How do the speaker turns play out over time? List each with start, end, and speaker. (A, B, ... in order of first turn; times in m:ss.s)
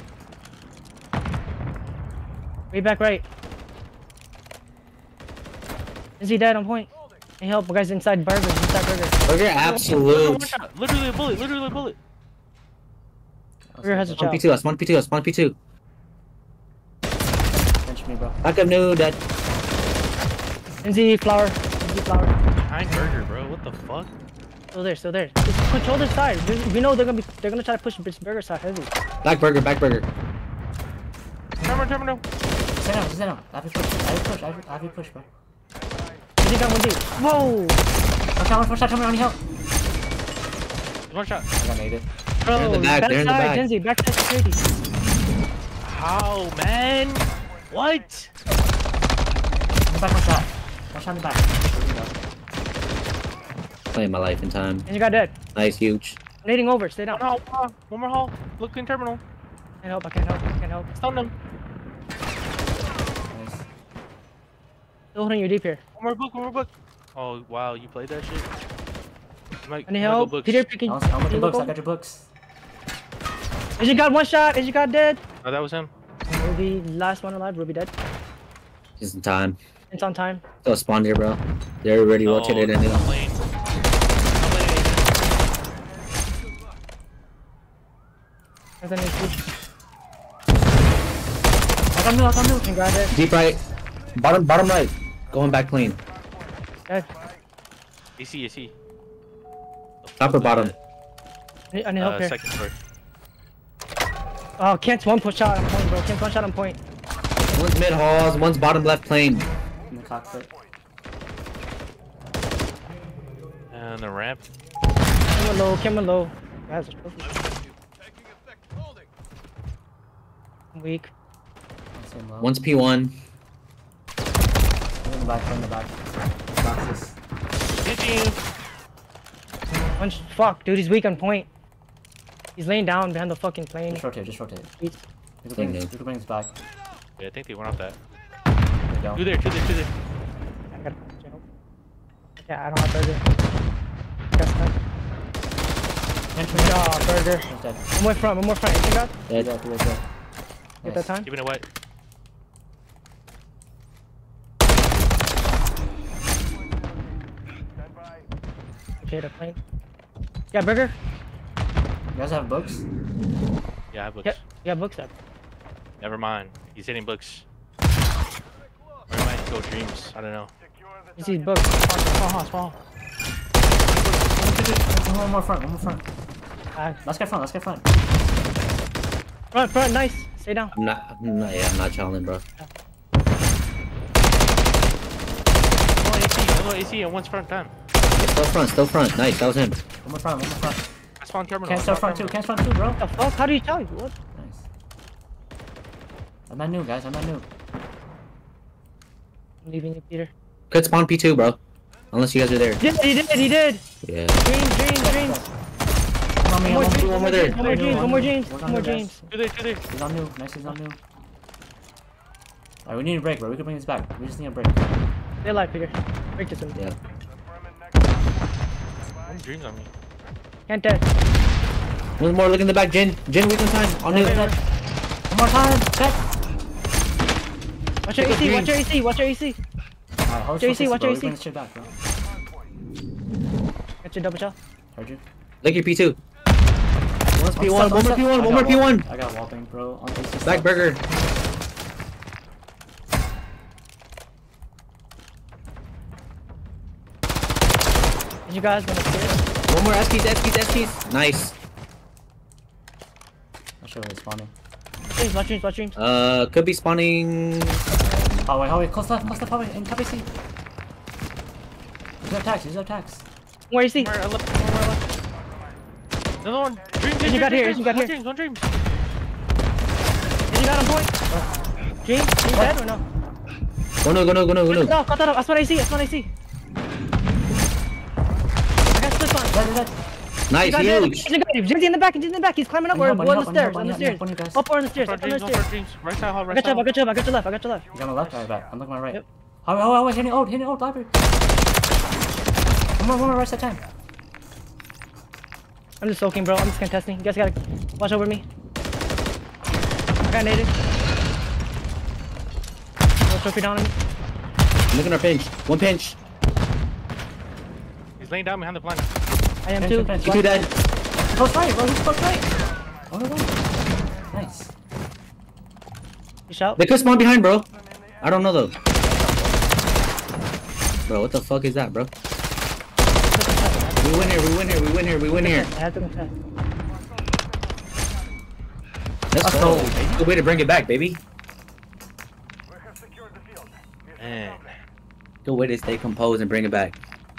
0:02.7-0:03.2 A
0:06.2-0:09.2 A
0:09.3-0:10.5 B
0:09.6-0:12.0 C
0:13.7-0:14.3 D
0:13.8-0:14.4 A
0:14.2-0:15.6 B
0:17.8-0:18.4 D
0:18.4-0:19.2 B
0:20.8-0:22.3 A
0:22.6-0:24.1 C
0:24.7-0:28.9 A
0:29.2-0:30.1 B
0:31.6-0:32.2 C
0:32.8-0:35.3 D
0:36.4-0:37.8 A
0:38.4-0:39.4 D
0:41.1-0:41.5 C
0:41.6-0:42.1 D
0:42.5-0:44.6 A
0:42.5-0:43.6 B
0:45.8-0:48.3 C
0:49.9-0:52.3 D
0:53.9-0:54.9 B
0:54.9-0:55.4 A
0:55.6-0:56.2 B
0:56.4-0:57.2 A
0:57.1-0:59.2 C
0:59.8-1:00.9 A
1:00.9-1:01.3 C
1:03.3-1:03.7 D
1:05.1-1:05.8 A
1:06.0-1:08.5 C
1:09.6-1:10.7 C
1:09.9-1:11.7 A
1:10.9-1:12.3 D
1:13.8-1:15.2 A
1:15.4-1:15.9 C
1:16.4-1:17.9 A
1:19.0-1:19.6 B
1:19.9-1:20.5 A
1:20.6-1:23.0 B
1:22.2-1:23.4 C
1:24.3-1:25.3 C
1:28.8-1:29.4 A
1:31.9-1:32.7 D
1:32.6-1:33.1 A
1:33.1-1:33.6 B
1:34.2-1:36.0 B
1:38.2-1:38.7 C
1:40.0-1:40.8 C
1:40.2-1:40.7 B
1:41.7-1:42.4 A
1:42.0-1:42.8 C
1:44.6-1:46.8 A
1:47.5-1:49.5 B
1:49.9-1:50.5 D
1:53.7-1:54.4 C
1:55.4-1:57.3 A
2:00.7-2:01.1 A
2:02.0-2:02.6 D
2:02.4-2:03.2 B
2:05.0-2:06.0 D
2:06.5-2:07.2 D
2:07.8-2:08.4 C
2:10.0-2:11.5 A
2:12.6-2:14.0 A
2:13.9-2:14.7 D
2:15.4-2:16.5 D
2:15.6-2:15.9 B
2:17.2-2:18.0 C
2:18.9-2:19.3 D
2:19.2-2:19.9 C
2:20.7-2:21.4 A
2:22.4-2:23.2 A
2:24.3-2:24.7 A
2:26.3-2:27.8 D
2:26.5-2:29.1 A
2:29.3-2:30.0 D
2:30.8-2:31.2 D
2:30.8-2:31.3 A
2:31.2-2:31.6 C
2:39.0-2:39.6 A
2:40.5-2:41.0 A
2:42.1-2:42.8 D
2:43.9-2:44.4 C
2:44.2-2:45.1 A
2:46.0-2:47.4 C
2:49.1-2:50.5 C
2:51.2-2:51.8 A
2:51.9-2:52.8 C
2:54.3-2:56.1 D
2:56.8-2:57.0 A
2:57.0-2:57.8 D
2:59.5-3:00.7 A
3:00.7-3:02.4 B
3:06.0-3:07.7 C
3:08.2-3:09.8 B
3:10.0-3:10.8 D
3:11.2-3:12.4 C
3:11.6-3:13.0 D
3:13.0-3:14.1 A
3:14.4-3:14.7 D
3:16.5-3:17.5 D
3:19.6-3:20.3 A
3:20.7-3:21.6 B
3:22.1-3:22.8 B
3:22.8-3:23.8 A
3:24.0-3:24.4 B
3:24.4-3:25.5 A
3:24.9-3:25.5 D
3:26.4-3:29.3 D
3:26.6-3:29.2 A
3:26.8-3:27.8 B
3:27.7-3:28.1 C
3:29.3-3:29.8 C
3:29.9-3:31.0 D
3:32.9-3:34.9 D
3:35.4-3:36.8 A
3:39.2-3:39.9 C
3:40.7-3:41.0 A
3:42.2-3:44.4 B
3:44.1-3:44.6 D
3:44.2-3:44.6 A
3:44.2-3:44.5 C
3:45.3-3:46.2 D
3:48.0-3:49.6 A
3:48.2-3:48.7 B
3:50.2-3:51.9 D
3:50.6-3:51.4 A
3:54.0-3:54.6 A
3:54.9-3:55.2 D
3:55.6-3:56.2 B
3:57.3-3:59.0 B
3:57.6-4:00.8 D
4:00.4-4:01.0 B
4:08.5-4:09.4 A
4:09.7-4:11.6 B
4:13.8-4:14.5 D
4:15.1-4:16.0 A
4:16.0-4:17.8 B
4:18.4-4:20.3 D
4:22.2-4:23.2 D
4:23.7-4:24.1 A
4:24.0-4:25.2 C
4:26.4-4:28.7 C
4:27.2-4:28.1 A
4:30.5-4:31.1 A
4:32.0-4:33.0 A
4:34.0-4:35.0 B
4:34.7-4:36.3 A
4:38.9-4:39.6 A
4:39.5-4:40.0 D
4:40.5-4:41.3 B
4:40.6-4:45.6 A
4:42.9-4:44.6 D
4:45.0-4:46.9 C
4:46.5-4:47.8 A
4:47.9-4:51.2 D
4:53.0-4:53.8 D
4:56.0-4:58.4 A
5:00.2-5:00.7 A
5:03.3-5:03.9 A
5:04.9-5:06.2 B
5:08.2-5:09.1 C
5:09.6-5:10.1 A
5:09.8-5:10.7 D
5:10.2-5:10.7 B
5:11.3-5:14.7 D
5:16.5-5:16.8 A
5:16.8-5:17.7 B
5:18.2-5:18.8 B
5:19.0-5:19.6 D
5:21.1-5:22.1 B
5:23.3-5:24.4 A
5:24.0-5:25.7 B
5:25.4-5:26.3 A
5:29.3-5:31.2 B
5:29.4-5:30.3 D
5:34.2-5:34.8 C
5:35.4-5:37.0 B